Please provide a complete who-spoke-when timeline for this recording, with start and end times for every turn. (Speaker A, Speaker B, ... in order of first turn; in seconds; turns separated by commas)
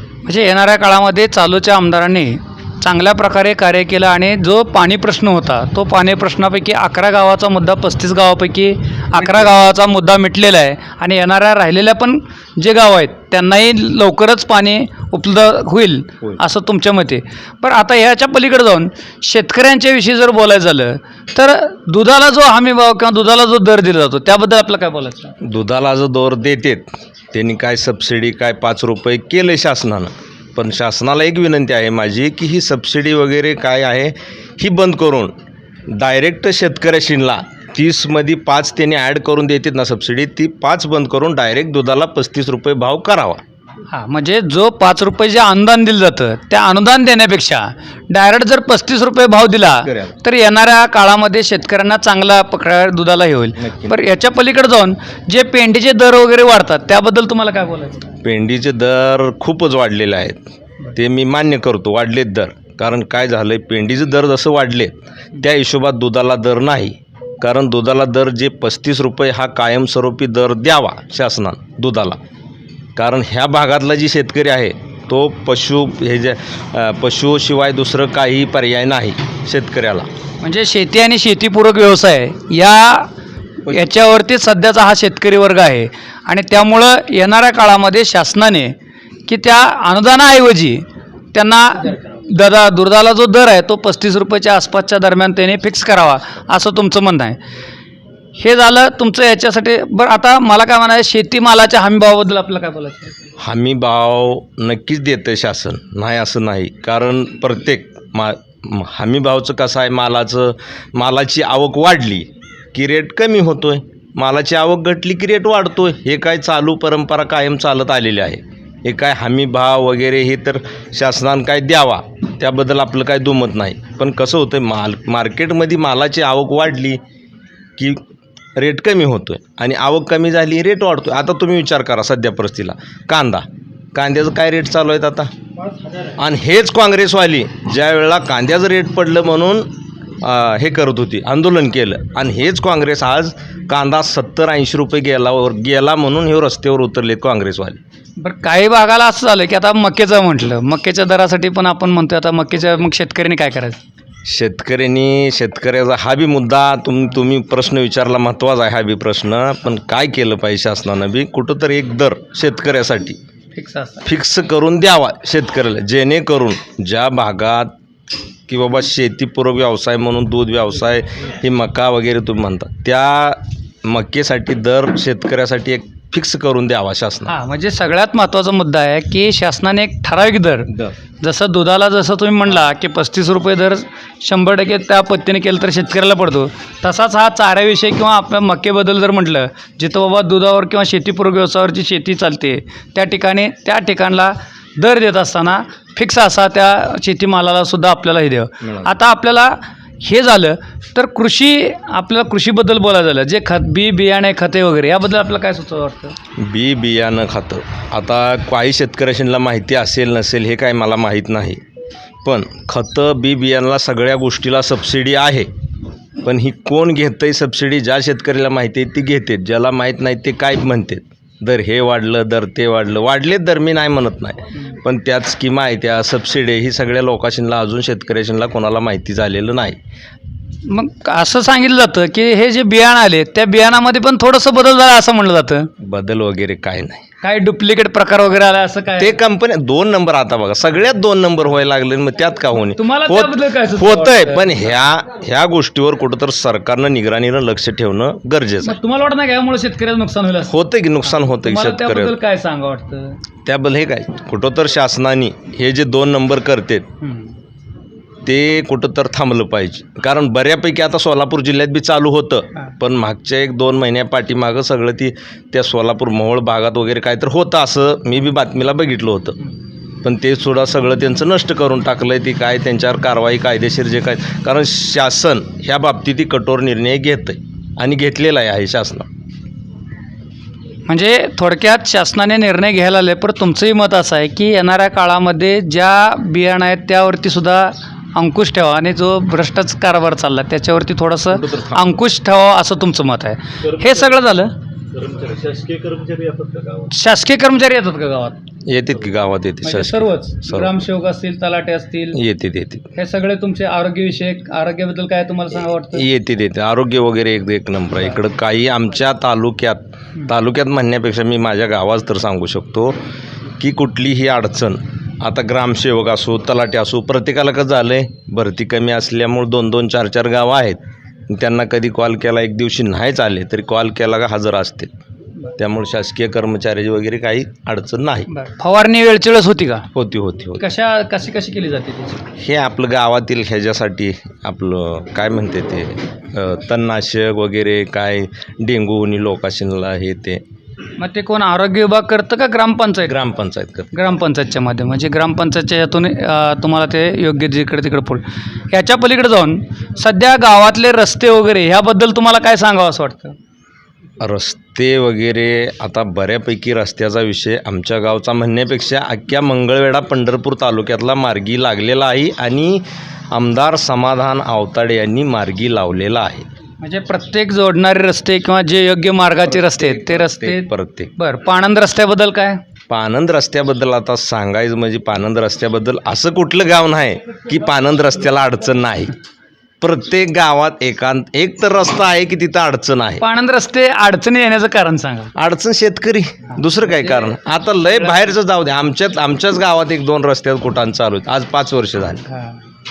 Speaker A: 0.2-25.3, Speaker B: 25.4-35.3, Speaker B: 35.9-43.4, Speaker A: 43.9-58.0, Speaker B: 49.8-50.1, Speaker B: 53.6-54.0, Speaker B: 58.2-72.2, Speaker B: 73.0-80.1, Speaker A: 80.4-83.1, Speaker A: 83.6-88.7, Speaker A: 89.2-97.4, Speaker A: 98.3-103.1, Speaker B: 103.4-127.0, Speaker B: 128.6-135.3, Speaker B: 136.2-139.7, Speaker B: 140.2-147.8, Speaker A: 148.2-153.8, Speaker B: 154.2-163.2, Speaker A: 163.5-164.1, Speaker B: 164.0-167.7, Speaker B: 168.5-177.3, Speaker A: 177.3-206.1, Speaker B: 206.4-211.6, Speaker B: 212.2-215.5, Speaker B: 216.2-229.8, Speaker A: 230.6-235.7, Speaker B: 235.8-237.0, Speaker A: 237.2-239.2, Speaker B: 239.0-248.8, Speaker A: 242.7-244.7, Speaker A: 248.6-253.2, Speaker B: 250.5-252.1, Speaker B: 253.4-256.9, Speaker A: 257.0-257.3, Speaker B: 258.2-269.4, Speaker B: 270.0-279.1, Speaker A: 280.9-294.5, Speaker B: 291.3-291.9, Speaker B: 294.9-296.9, Speaker A: 296.9-298.4, Speaker B: 298.7-300.7, Speaker A: 299.6-302.2, Speaker B: 302.1-302.9, Speaker A: 302.9-306.0, Speaker B: 305.9-313.0, Speaker B: 313.6-324.9, Speaker B: 325.6-328.3, Speaker A: 328.3-329.9, Speaker B: 329.9-330.6, Speaker A: 330.6-332.2, Speaker B: 332.3-340.4, Speaker A: 341.0-343.2, Speaker B: 343.1-343.9, Speaker A: 343.9-353.4, Speaker B: 354.2-366.5, Speaker A: 366.8-372.6, Speaker B: 369.5-371.1, Speaker B: 372.9-379.1, Speaker B: 379.8-383.2, Speaker A: 383.2-385.3, Speaker B: 385.3-392.2, Speaker A: 386.9-387.3, Speaker A: 392.3-392.6